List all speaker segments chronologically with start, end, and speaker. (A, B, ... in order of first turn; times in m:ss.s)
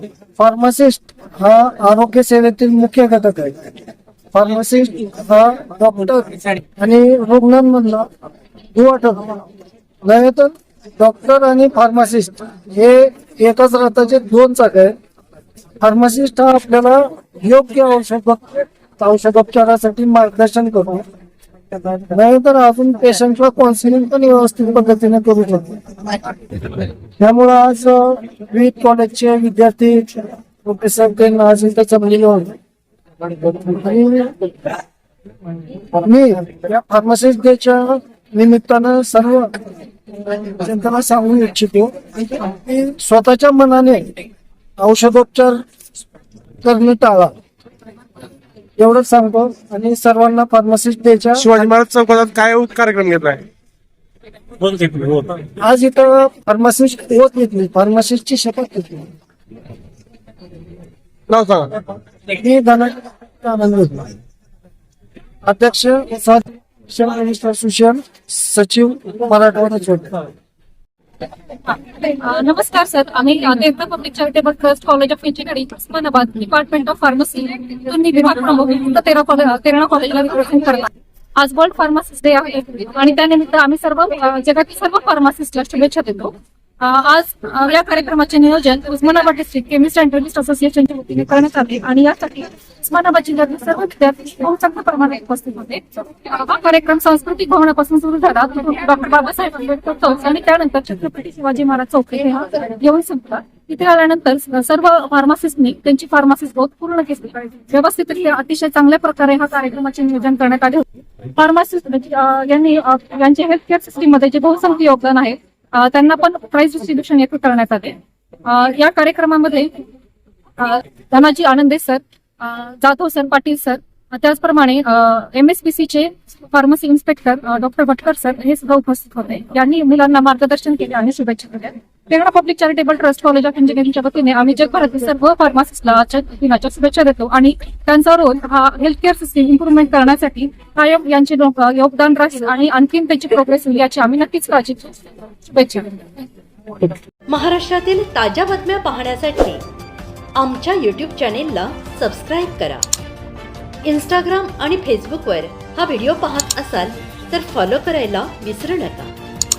0:00.4-0:03.7 A
0:04.3-0:08.1 A
0:08.7-0:09.4 A
0:10.0-0:14.9 A
0:15.8-0:21.0 A
0:22.0-0:26.2 A
0:27.2-0:32.6 A
0:33.4-0:34.8 A
0:35.9-0:39.6 A
0:40.2-0:44.2 A
0:44.8-0:45.6 A
0:46.6-0:47.3 A
0:48.8-0:51.6 A
0:51.4-0:53.4 B
0:54.6-0:55.5 B
0:55.6-0:59.1 A
1:01.3-1:01.8 B
1:02.3-1:04.1 A
1:05.4-1:10.3 A
1:11.6-1:59.8 C
2:00.6-2:26.0 C
2:27.3-2:29.6 D
2:30.3-2:32.8 D
2:33.8-2:39.1 D